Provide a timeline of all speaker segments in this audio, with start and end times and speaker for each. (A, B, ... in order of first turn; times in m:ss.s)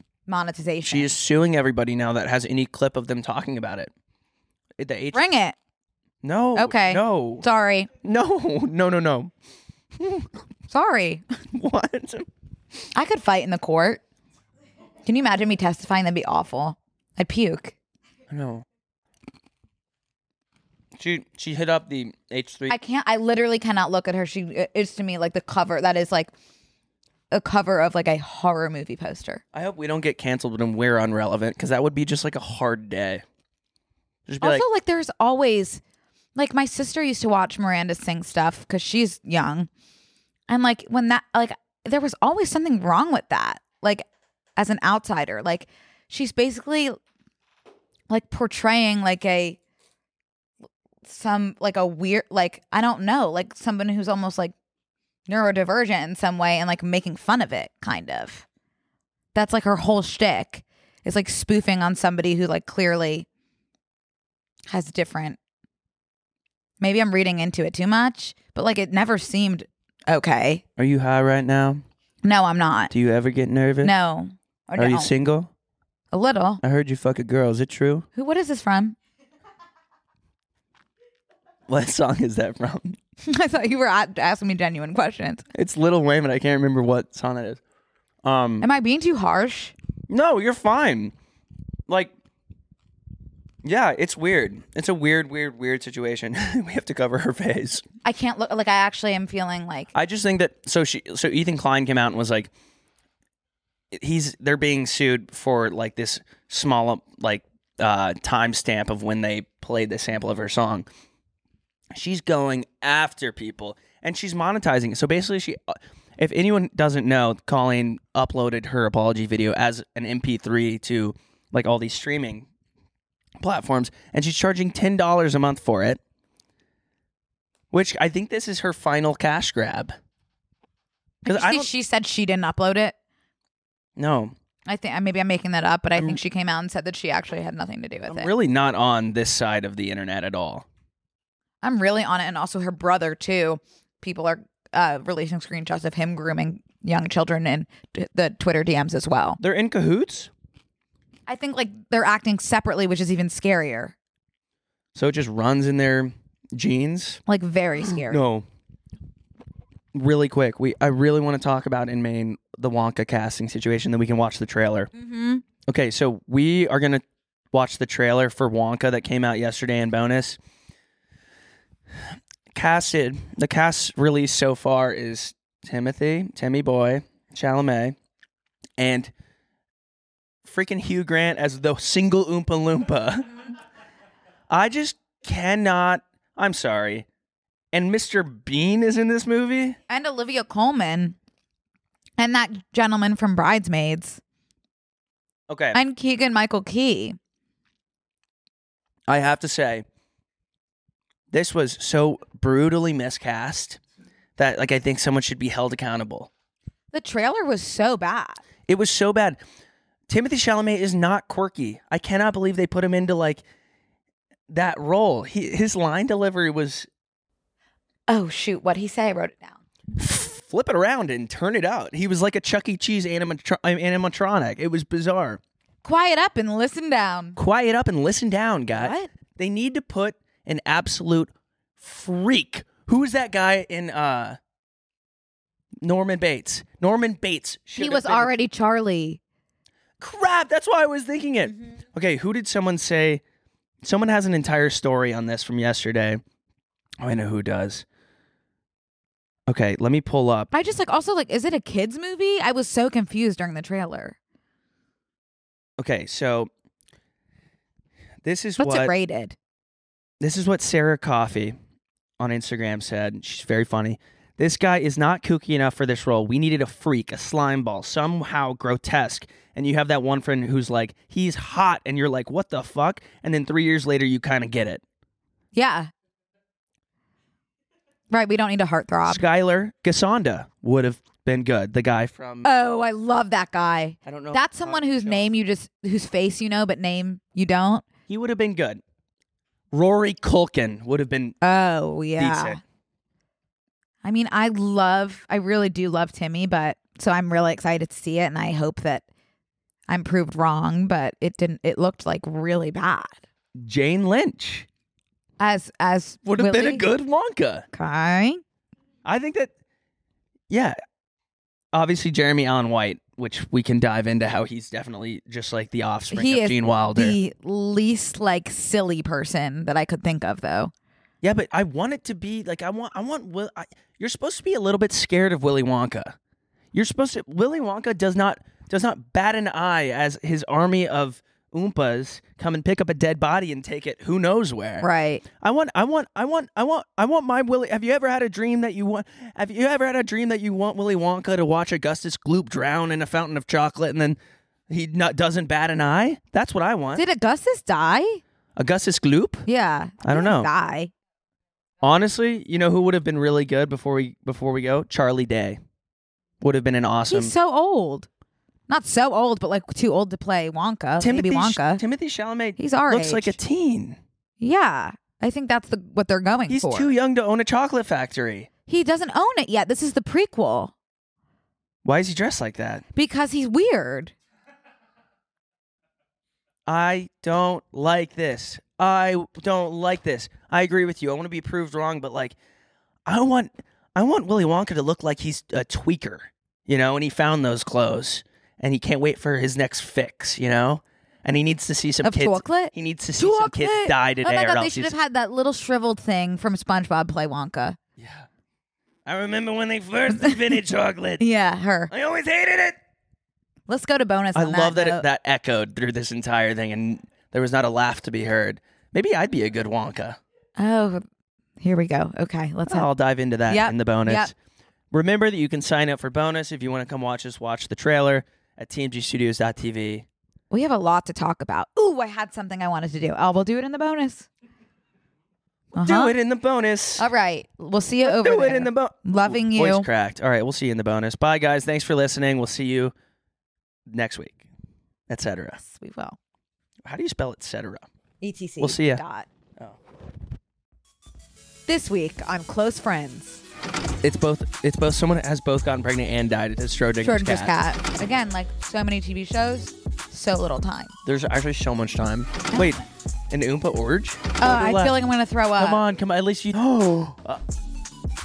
0:00.3-0:01.1 A
0:00.8-0:03.9 B
0:04.8-0:05.2 B
0:05.1-0:05.6 A
0:06.2-0:07.4 B
0:06.6-0:07.9 A
0:08.0-0:09.3 B
0:10.0-0:10.3 B
0:10.7-0:11.2 A
0:11.5-0:12.2 B
0:12.9-0:14.0 A
0:15.0-0:17.8 A
0:18.3-0:18.6 B
0:21.0-0:22.7 B
0:22.7-0:26.3 A
0:27.3-0:29.4 A
0:29.5-0:33.2 B
0:34.3-0:34.6 B
0:34.4-0:35.8 A
0:36.4-0:39.7 A
0:40.5-0:44.0 A
0:44.6-0:47.0 A
0:48.1-0:49.6 A
0:51.0-0:54.5 A
0:55.3-0:58.4 A
0:59.3-1:03.3 A
1:04.7-1:05.4 A
1:06.8-1:10.6 A
1:10.8-1:11.8 B
1:12.2-1:12.9 A
1:12.9-1:13.9 B
1:13.8-1:15.1 A
1:14.8-1:15.5 B
1:16.1-1:16.6 A
1:16.6-1:18.1 B
1:18.2-1:19.0 A
1:21.7-1:23.0 B
1:23.2-1:25.4 A
1:25.5-1:27.6 B
1:28.2-1:28.7 B
1:28.6-1:29.7 A
1:30.1-1:31.1 B
1:33.6-1:37.8 B
1:38.0-1:39.9 A
1:39.9-1:42.5 B
1:43.9-1:50.8 B
1:51.9-2:02.5 B
2:03.4-2:06.0 B
2:07.7-2:09.9 B
2:11.2-2:11.7 B
2:11.2-2:13.0 A
2:14.0-2:14.3 B
2:14.6-2:18.3 A
2:16.0-2:16.2 B
2:18.1-2:20.6 B
2:21.6-2:29.4 A
2:29.4-2:30.3 B
2:31.3-2:33.9 A
2:34.9-2:37.2 B
2:37.3-2:38.2 A
2:37.9-2:38.4 B
2:39.9-2:44.9 B
2:44.9-2:45.4 A
2:45.7-2:50.4 B
2:52.5-2:57.9 B
2:58.8-2:59.1 B
3:00.4-3:03.3 B
3:04.5-3:07.0 B
3:07.7-3:09.8 B
3:09.9-3:11.2 A
3:12.2-3:14.2 A
3:15.5-3:15.8 B
3:15.7-3:17.2 A
3:19.1-3:19.8 B
3:21.3-3:23.8 B
3:24.4-3:26.3 B
3:26.9-3:28.4 A
3:28.7-3:29.4 B
3:30.1-3:33.4 B
3:34.5-3:36.9 B
3:38.1-3:39.6 A
3:40.0-3:45.4 B
3:45.8-3:47.4 A
3:47.4-3:54.4 B
3:48.8-3:49.1 A
3:55.8-3:58.3 B
3:57.8-3:59.2 A
4:00.0-4:03.2 B
4:03.8-4:06.2 B
4:07.0-4:07.8 B
4:09.5-4:10.5 B
4:10.5-4:14.2 A
4:15.8-4:16.5 B
4:18.2-4:18.9 B
4:18.6-4:19.3 A
4:20.2-4:21.6 B
4:22.2-4:34.8 B
4:35.5-4:35.9 A
4:38.1-4:39.2 A
4:39.1-4:42.5 B
4:42.4-4:47.8 A
4:44.0-4:45.3 B
4:48.1-4:48.8 B
4:49.7-4:51.4 B
4:51.4-4:52.6 A
4:52.2-4:52.6 B
4:54.0-4:59.0 A
4:59.9-5:03.2 A
5:03.6-5:04.7 B
5:05.4-5:06.9 A
5:06.2-5:07.7 B
5:07.7-5:08.4 A
5:09.0-5:09.5 B
5:10.5-5:10.7 B
5:11.7-5:17.2 B
5:16.1-5:20.7 A
5:21.2-5:26.1 B
5:26.7-5:34.8 B
5:34.8-5:35.2 A
5:35.4-5:44.2 B
5:44.7-5:47.0 B
5:47.0-5:48.2 A
5:48.6-5:49.4 B
5:49.4-5:50.9 A
5:50.0-5:50.5 B
5:51.8-5:55.6 B
5:56.4-5:57.3 B
5:57.1-5:58.1 A
5:58.7-6:01.8 A
6:01.0-6:04.0 B
6:02.6-6:03.4 A
6:04.4-6:06.9 A
6:06.5-6:08.5 B
6:08.7-6:10.7 A
6:11.8-6:12.8 B
6:13.0-6:14.1 A
6:16.7-6:22.3 B
6:23.1-6:34.9 B
6:32.0-6:37.8 A
6:38.0-6:38.3 B
6:39.0-6:41.2 B
6:41.2-6:41.9 A
6:41.9-6:42.8 B
6:43.7-6:45.0 A
6:44.3-6:50.2 B
6:50.6-6:51.0 A
6:51.6-6:52.9 A
6:52.7-6:54.3 B
6:53.5-6:54.3 A
6:54.9-7:00.0 B
7:00.5-7:04.3 A
7:05.7-7:06.1 A
7:05.7-7:07.1 B
7:07.0-7:09.9 A
7:08.0-7:12.9 B
7:13.9-7:14.4 B
7:15.1-7:15.6 B
7:15.6-7:16.2 A
7:16.8-7:17.8 B
7:18.2-7:19.3 A
7:18.6-7:19.0 B
7:21.7-7:23.4 A
7:24.0-7:27.5 B
7:27.0-7:30.9 A
7:31.0-7:34.9 B
7:32.5-7:32.9 A
7:34.4-7:35.8 A
7:35.6-7:37.4 B